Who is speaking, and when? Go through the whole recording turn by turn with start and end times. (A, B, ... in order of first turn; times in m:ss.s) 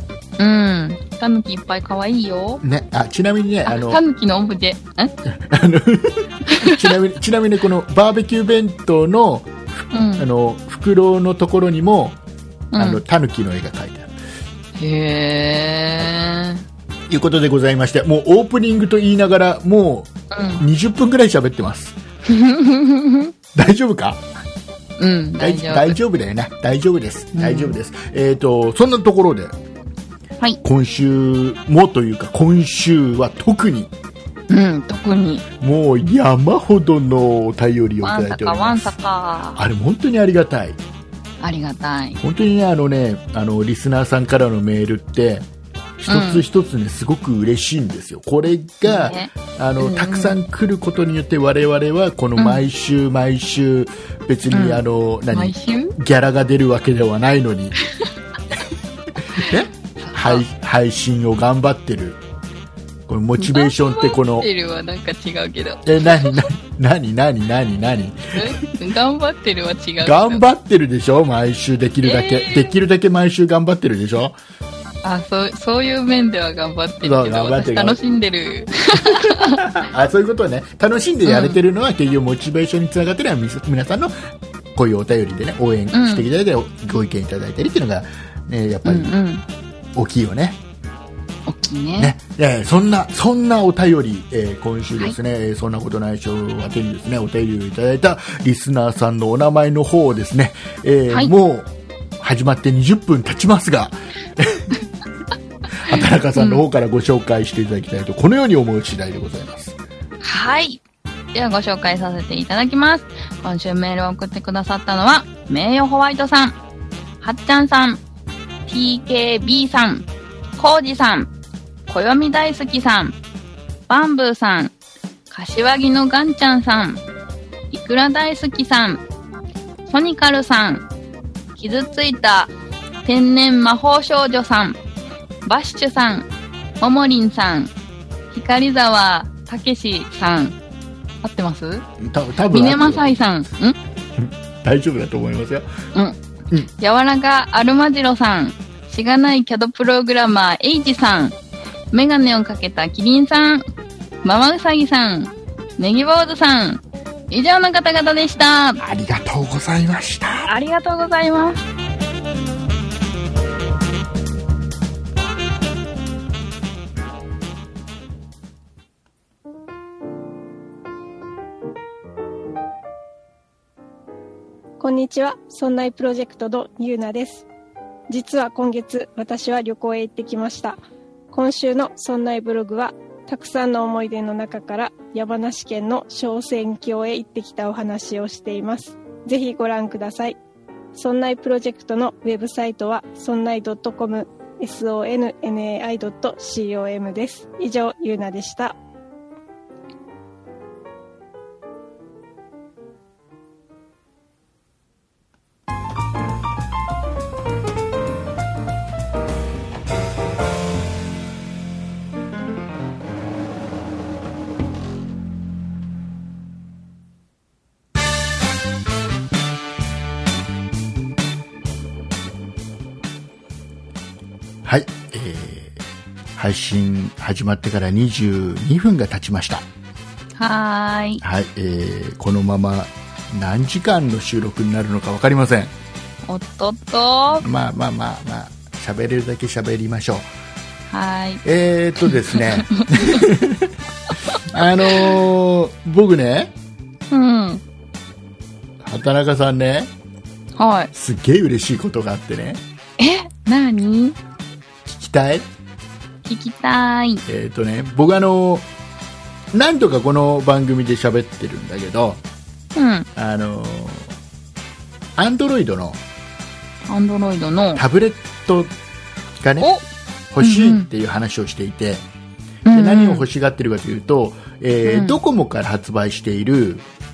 0:00.4-0:02.6 A
0:02.6-0:04.0 B
0:03.7-0:05.1 A
0:05.3-0:12.2 B
0:06.5-0:06.9 A
0:09.9-0:10.3 A
0:12.7-0:13.0 A
0:12.8-0:14.1 B
0:14.8-0:16.6 A
0:17.1-0:22.0 B
0:20.3-0:20.6 A
0:22.3-0:23.3 A
0:23.5-0:24.2 B
0:25.0-0:26.0 A
0:25.4-0:29.5 B
0:27.3-0:27.8 A
0:30.6-0:33.9 B
0:34.5-0:35.5 A
0:35.6-0:38.9 B
0:38.0-0:39.6 A
0:39.6-0:40.8 B
0:41.4-0:42.2 A
0:42.2-0:45.5 B
0:46.0-0:57.8 B
0:46.1-0:46.4 A
0:48.8-0:50.4 A
0:52.4-0:52.6 A
0:54.5-0:56.0 A
0:59.3-1:02.2 B
1:00.0-1:00.4 A
1:03.1-1:04.5 B
1:03.4-1:06.5 A
1:05.8-1:08.6 B
1:08.4-1:10.4 A
1:10.0-1:14.4 B
1:12.0-1:12.8 A
1:15.0-1:19.7 A
1:17.0-1:18.0 B
1:19.0-1:24.2 B
1:21.2-1:21.6 A
1:24.8-1:29.1 B
1:25.9-1:26.3 A
1:28.8-1:29.4 A
1:30.0-1:30.6 B
1:31.5-1:32.1 A
1:32.0-1:44.7 B
1:45.8-1:49.8 B
1:46.0-1:46.6 A
1:50.2-1:50.8 A
1:51.3-1:56.6 A
1:57.2-1:58.0 A
1:58.7-2:01.3 A
2:01.9-2:03.2 A
2:03.9-2:04.7 A
2:05.3-2:07.0 A
2:07.7-2:09.0 A
2:09.9-2:10.9 A
2:11.6-2:12.5 A
2:13.0-2:14.8 A
2:15.4-2:16.3 A
2:16.8-2:17.7 A
2:18.3-2:20.6 A
2:21.2-2:21.8 A
2:22.0-2:23.2 B
2:22.5-2:23.8 A
2:24.2-2:25.7 B
2:26.8-2:31.4 A
2:31.9-2:33.6 A
2:34.2-2:38.8 A
2:38.8-2:40.5 B
2:40.4-2:41.6 A
2:54.8-2:57.5 C
2:58.1-3:00.8 C
3:01.3-3:10.4 C
3:10.9-3:18.8 C
3:44.6-3:45.8 B
3:46.4-3:49.7 B
3:50.4-3:51.2 A
3:51.2-3:55.7 B
3:56.3-3:57.5 A
3:57.4-4:00.3 B
4:00.9-4:01.4 A
4:01.4-4:03.7 B
4:02.0-4:03.3 A
4:04.4-4:05.2 A
4:04.4-4:06.5 B
4:07.1-4:07.6 A
4:08.8-4:09.9 B
4:10.6-4:10.9 A
4:10.9-4:12.6 B
4:13.0-4:14.2 A
4:14.9-4:15.5 B
4:16.2-4:17.2 A
4:17.3-4:18.7 B
4:19.5-4:22.2 B
4:22.8-4:23.1 A
4:23.2-4:24.1 B
4:25.2-4:26.0 B
4:26.9-4:27.8 A
4:27.8-4:28.7 B
4:29.4-4:29.7 B
4:29.6-4:29.8 A
4:30.3-4:32.1 B
4:30.4-4:30.9 A
4:32.7-4:33.3 A
4:32.7-4:36.8 B
4:34.9-4:35.2 A